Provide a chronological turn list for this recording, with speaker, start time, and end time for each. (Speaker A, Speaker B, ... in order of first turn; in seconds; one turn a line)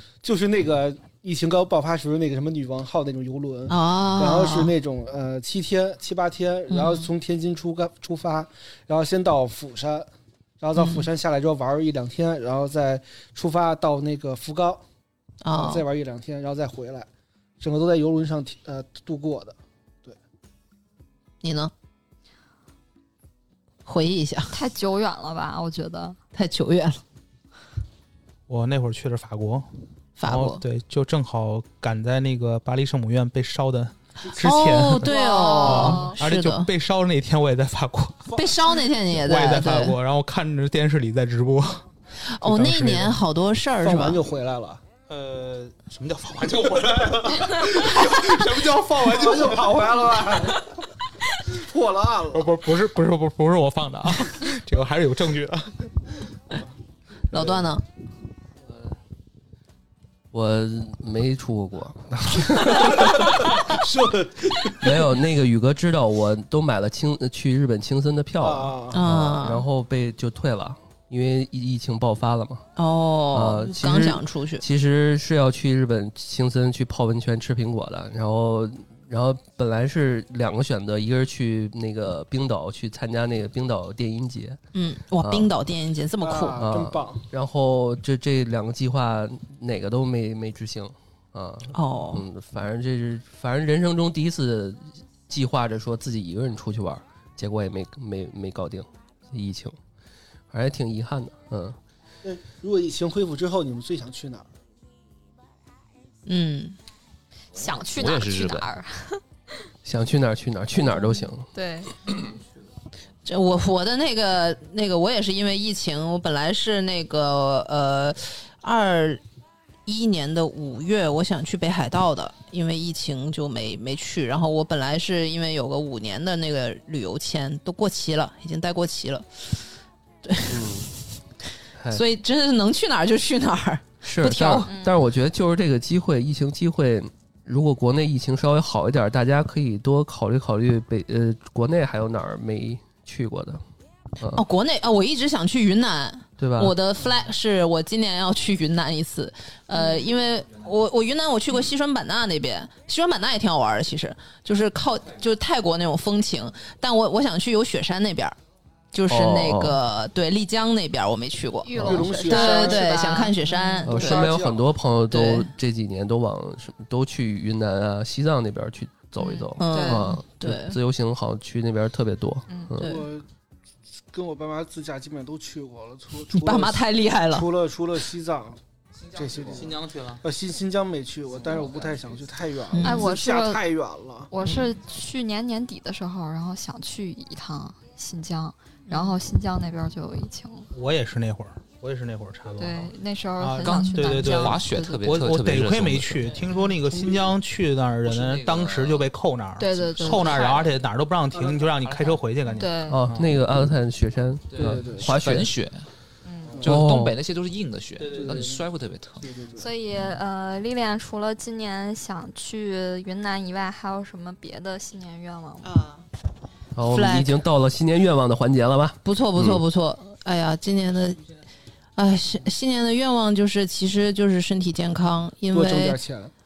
Speaker A: 0.2-10.1
Speaker B: 3.7-4.7
Speaker B: 6.7-7.1
Speaker A: 10.6-14.8
Speaker B: 10.8-11.0
Speaker B: 15.4-15.8
Speaker A: 15.5-17.1
Speaker A: 17.6-20.2
Speaker B: 21.4-21.7
Speaker B: 23.8-24.5
Speaker C: 24.5-26.2
Speaker B: 26.3-27.0
Speaker D: 28.5-29.7
Speaker B: 30.2-30.6
Speaker D: 30.2-38.4
Speaker B: 34.3-36.7
Speaker C: 35.0-36.2
Speaker B: 38.3-40.0
Speaker D: 39.1-41.8
Speaker B: 42.4-44.2
Speaker A: 42.4-43.2
Speaker A: 43.8-44.8
Speaker D: 45.1-49.8
Speaker A: 49.0-50.7
Speaker A: 51.5-52.5
Speaker D: 52.3-55.9
Speaker B: 57.3-57.8
Speaker A: 57.3-57.6
Speaker E: 60.3-63.6
Speaker A: 63.1-65.0
Speaker E: 64.8-72.7
Speaker A: 68.4-69.1
Speaker B: 68.9-69.6
Speaker B: 72.8-74.6
Speaker E: 73.3-84.6
Speaker B: 84.7-86.6
Speaker E: 85.2-85.5
Speaker A: 86.2-87.3
Speaker E: 86.6-99.8
Speaker B: 91.7-92.2
Speaker E: 100.5-101.8
Speaker A: 102.2-104.5
Speaker B: 106.2-106.8
Speaker C: 107.5-109.2
Speaker F: 107.6-108.7
Speaker E: 109.8-111.5
Speaker C: 111.0-111.9
Speaker B: 113.2-119.2
Speaker B: 119.8-129.4
Speaker B: 130.2-130.8
Speaker E: 130.5-130.9
Speaker E: 131.8-132.0
Speaker B: 131.9-134.7
Speaker E: 134.0-143.6
Speaker C: 134.7-135.0
Speaker E: 144.2-144.4
Speaker B: 144.3-158.4
Speaker E: 146.4-146.7
Speaker C: 149.7-150.0
Speaker B: 158.9-164.3
Speaker E: 159.1-159.8
Speaker C: 161.6-164.0
Speaker A: 161.8-162.9
Speaker E: 163.8-173.0
Speaker A: 163.9-164.7
Speaker B: 165.1-165.5
Speaker C: 169.2-170.1
Speaker B: 169.6-170.8
Speaker A: 172.8-173.2
Speaker A: 174.1-178.6
Speaker B: 176.3-177.5
Speaker A: 179.1-184.3
Speaker D: 179.5-180.2
Speaker B: 182.7-183.0
Speaker C: 182.8-183.6
Speaker C: 184.3-190.7
Speaker B: 188.9-189.1
Speaker D: 190.7-203.3
Speaker C: 192.6-195.0
Speaker F: 193.7-196.4
Speaker F: 198.1-199.1
Speaker C: 199.6-200.7
Speaker C: 202.6-203.0
Speaker E: 202.9-205.5
Speaker F: 204.5-205.9
Speaker A: 204.6-205.1
Speaker C: 206.2-206.5
Speaker F: 206.6-209.3
Speaker E: 206.6-207.2
Speaker A: 208.1-208.6
Speaker A: 209.2-209.7
Speaker C: 209.5-215.7
Speaker B: 215.7-216.0
Speaker E: 216.8-219.6
Speaker B: 216.9-217.4
Speaker B: 219.0-221.2
Speaker B: 221.9-226.0
Speaker A: 225.5-226.3